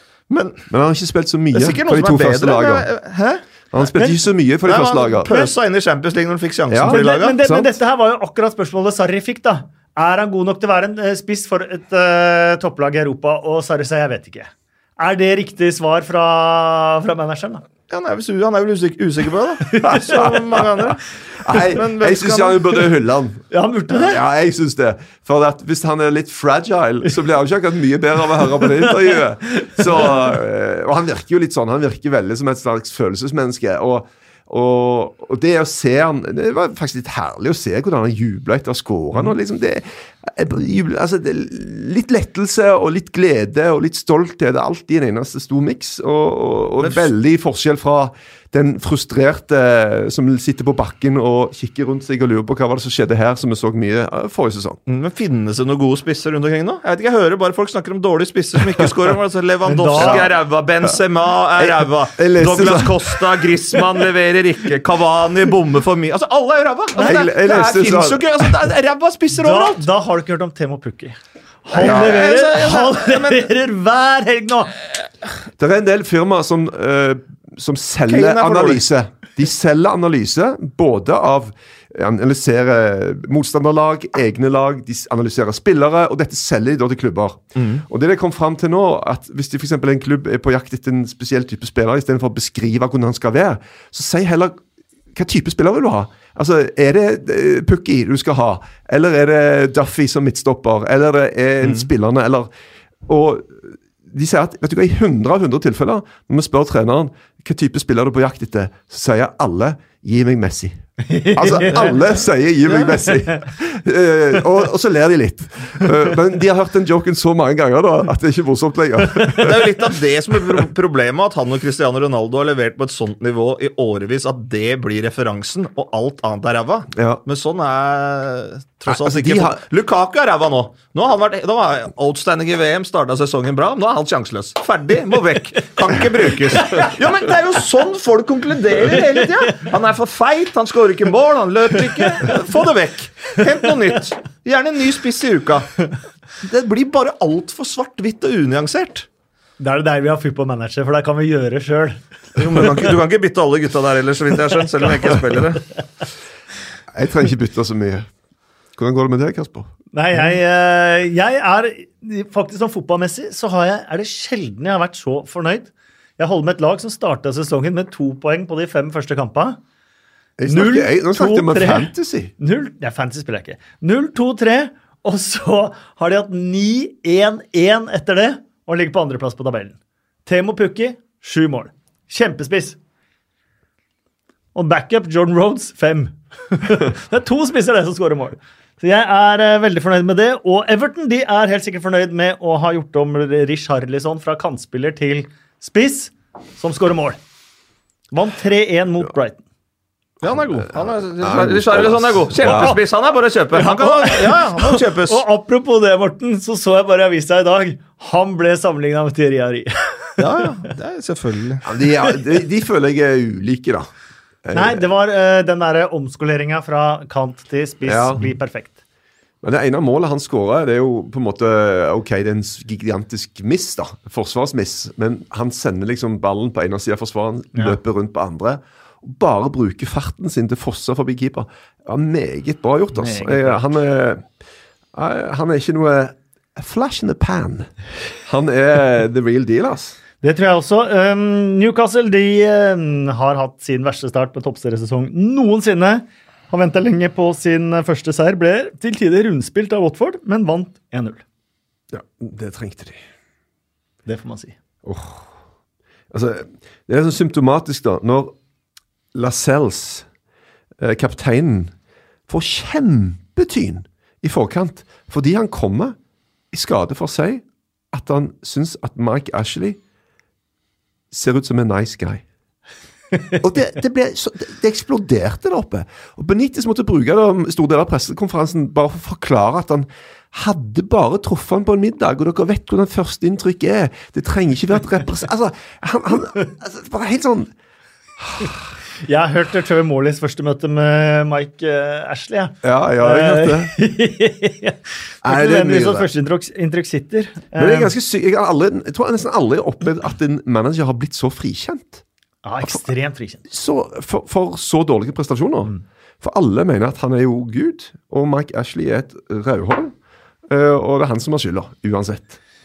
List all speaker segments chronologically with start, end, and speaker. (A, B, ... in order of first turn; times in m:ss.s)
0:00.3-0:00.6 A
0:00.7-0:02.9 B
0:01.5-0:03.4 A
0:03.7-0:05.3 B
0:04.6-0:07.4 A
0:05.3-0:05.5 C
0:06.7-0:07.7 B
0:06.8-0:17.6 C
0:17.9-0:22.8 A
0:19.7-0:20.2 C
0:19.8-0:54.8 B
0:23.5-0:24.2 C
0:28.6-0:29.8 C
0:46.8-0:47.1 A
0:54.9-1:09.8 A
0:59.6-1:00.3 C
1:00.0-1:00.3 B
1:01.6-1:04.0 B
1:07.0-1:08.6 B
1:09.3-1:14.8 C
1:11.7-1:13.5 A
1:11.8-1:12.2 B
1:15.6-1:34.6 B
1:18.1-1:18.8 A
1:27.6-1:27.8 A
1:35.1-1:42.5 B
1:41.6-1:41.9 A
1:43.1-1:59.8 B
1:51.0-1:51.9 C
1:52.6-1:53.0 A
1:59.4-2:25.8 A
2:06.9-2:07.2 B
2:08.9-2:09.6 B
2:16.6-2:16.9 C
2:19.1-2:19.6 C
2:21.9-2:22.4 C
2:26.4-2:29.1 A
2:29.6-2:32.0 C
2:32.4-2:35.6 A
2:36.9-2:38.1 B
2:38.8-2:39.7 B
2:39.9-2:49.6 C
2:50.4-2:52.3 B
2:50.5-3:02.8 C
3:04.5-3:17.2 C
3:18.1-3:19.4 C
3:20.2-3:25.2 A
3:21.2-3:22.8 B
3:22.4-3:22.8 C
3:23.5-3:30.7 C
3:30.2-3:31.7 A
3:31.6-3:33.9 B
3:34.4-3:34.8 B
3:34.5-3:38.8 C
3:37.8-3:38.3 B
3:39.4-3:54.3 B
3:53.0-3:53.7 C
3:54.9-3:57.7 B
3:58.2-4:00.0 B
4:00.2-4:11.2 C
4:11.9-4:13.0 B
4:14.1-4:14.6 C
4:14.8-4:15.3 B
4:16.1-4:18.3 B
4:19.1-4:20.1 B
4:20.8-4:21.7 B
4:22.3-4:26.0 B
4:26.5-4:29.8 B
4:31.1-4:32.2 B
4:33.4-4:47.5 B
4:48.2-4:48.6 B
4:49.0-4:57.9 C
4:52.6-4:53.7 B
4:55.2-4:56.1 B
4:57.6-5:02.0 B
5:02.4-5:03.4 C
5:03.5-5:09.9 B
5:10.5-5:12.4 B